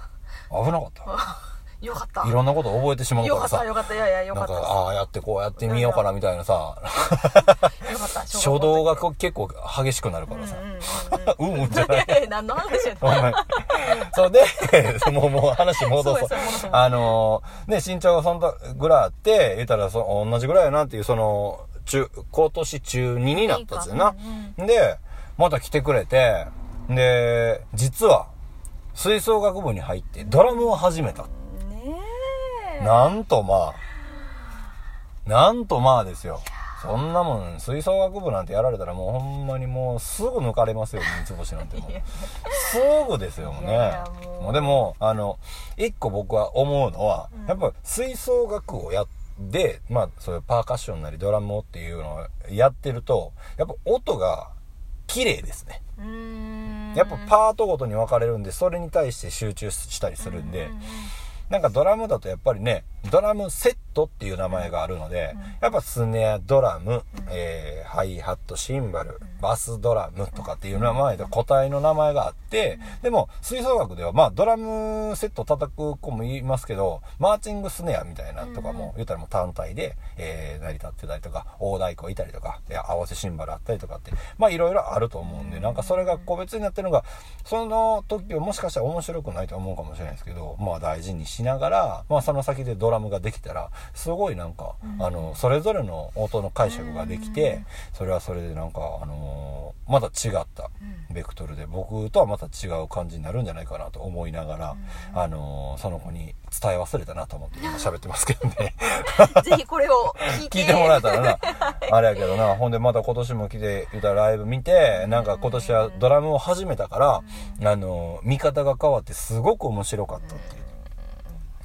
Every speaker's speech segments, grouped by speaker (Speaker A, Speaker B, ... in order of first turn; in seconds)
Speaker A: 0.5-1.1, 2.2-3.7, 4.3-7.8, 8.3-12.3, 13.0-28.3, 28.9-31.3, 32.8-33.8, 35.3-54.5, 55.1-55.8, 56.9-60.8, 61.5-109.6, 110.2-120.6
Speaker B: 1.1-2.3, 3.2-4.8, 5.6-6.0, 7.5-9.1, 10.3-13.6, 15.8-17.2, 23.3-24.6, 30.2-33.1, 41.7-42.7, 43.4-44.8, 47.3-47.6, 56.0-57.3, 60.2-61.1, 70.8-71.0, 78.4-78.9, 85.3-86.2, 94.8-95.3, 96.6-97.7, 104.7-105.2, 107.6-107.9, 109.1-111.9, 114.9-116.0, 117.2-117.6, 120.3-120.6